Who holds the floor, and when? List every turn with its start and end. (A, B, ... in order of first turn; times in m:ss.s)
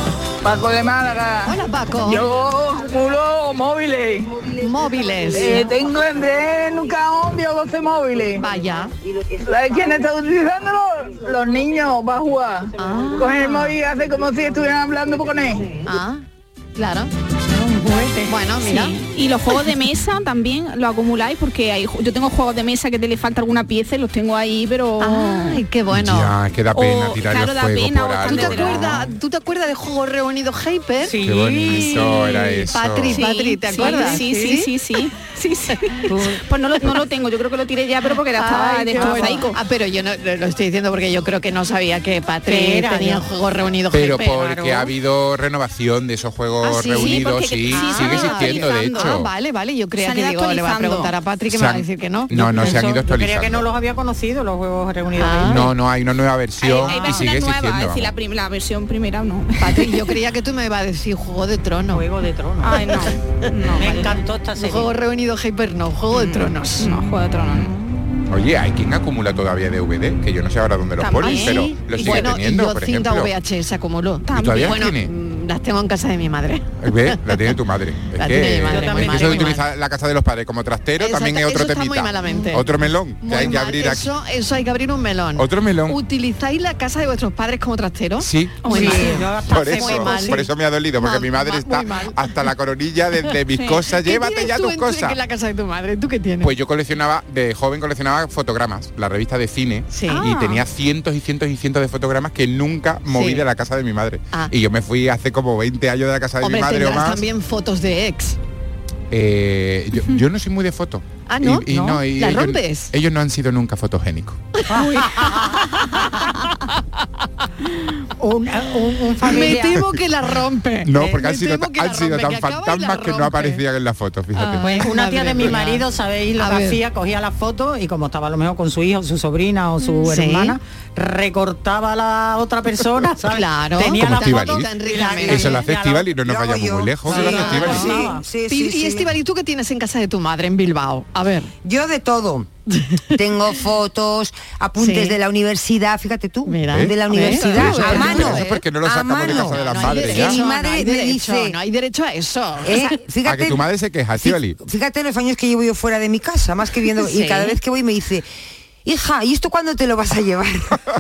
0:00.4-0:04.7 A
0:01.4-0:02.3 B
0:04.6-0:05.7 B
0:05.3-0:08.5 A
0:08.4-0:08.9 B
0:09.4-0:15.8 A
0:12.8-0:13.8 B
0:15.9-0:16.2 B
0:16.8-0:17.1 B
0:17.5-0:18.3 C
0:18.3-0:19.0 B
0:18.6-0:25.6 D
0:25.0-0:26.3 B
0:25.9-0:29.1 E
0:26.8-0:29.1 D
0:28.2-0:31.2 B
0:31.0-0:32.4 C
0:31.2-0:33.2 E
0:31.7-0:34.7 B
0:33.1-0:39.6 D
0:33.7-0:34.6 C
0:36.1-0:36.4 C
0:38.4-0:44.4 B
0:38.6-0:39.4 C
0:42.5-0:43.2 C
0:43.9-0:49.3 E
0:44.4-0:44.9 C
0:46.6-0:52.8 B
0:46.7-0:49.2 D
0:50.0-0:51.1 D
0:51.5-0:53.7 E
0:52.3-0:55.8 C
0:55.2-0:55.7 B
0:55.4-0:58.1 E
0:56.6-1:00.2 D
0:56.7-0:57.3 C
0:59.6-1:02.0 B
1:01.9-1:03.0 C
1:02.6-1:04.2 D
1:03.7-1:04.0 B
1:03.8-1:04.9 C
1:04.6-1:07.0 B
1:06.1-1:07.8 D
1:08.3-1:13.3 E
1:11.0-1:12.3 D
1:11.2-1:17.4 B
1:14.3-1:14.8 D
1:14.3-1:15.1 E
1:16.8-1:24.1 E
1:18.2-1:19.6 B
1:18.7-1:19.6 C
1:21.0-1:30.5 B
1:25.4-1:26.0 E
1:28.2-1:35.2 E
1:28.7-1:30.5 C
1:28.8-1:29.1 D
1:31.0-1:32.2 B
1:33.9-1:36.5 B
1:36.4-1:47.2 E
1:39.9-1:40.6 B
1:43.1-1:43.4 B
1:46.4-1:48.4 B
1:49.1-1:54.4 E
1:51.3-1:52.9 B
1:51.7-1:52.0 C
1:54.6-1:56.5 B
1:54.7-1:55.8 C
1:58.2-1:59.8 C
1:59.2-2:03.6 B
1:59.4-2:00.0 E
2:00.8-2:04.7 E
2:04.3-2:05.8 B
2:04.6-2:16.1 C
2:06.4-2:06.8 B
2:10.0-2:10.6 B
2:13.3-2:15.7 B
2:13.9-2:14.7 E
2:15.2-2:17.9 E
2:16.1-2:19.2 F
2:17.1-2:21.5 B
2:17.1-2:18.2 C
2:21.6-2:22.5 F
2:22.7-2:23.1 B
2:23.1-2:31.6 F
2:24.8-2:25.2 B
2:26.5-2:28.7 B
2:26.7-2:30.4 E
2:29.2-2:33.0 B
2:32.6-2:33.6 F
2:33.2-2:34.6 E
2:34.2-2:38.3 F
2:37.0-2:37.6 B
2:38.8-2:40.8 F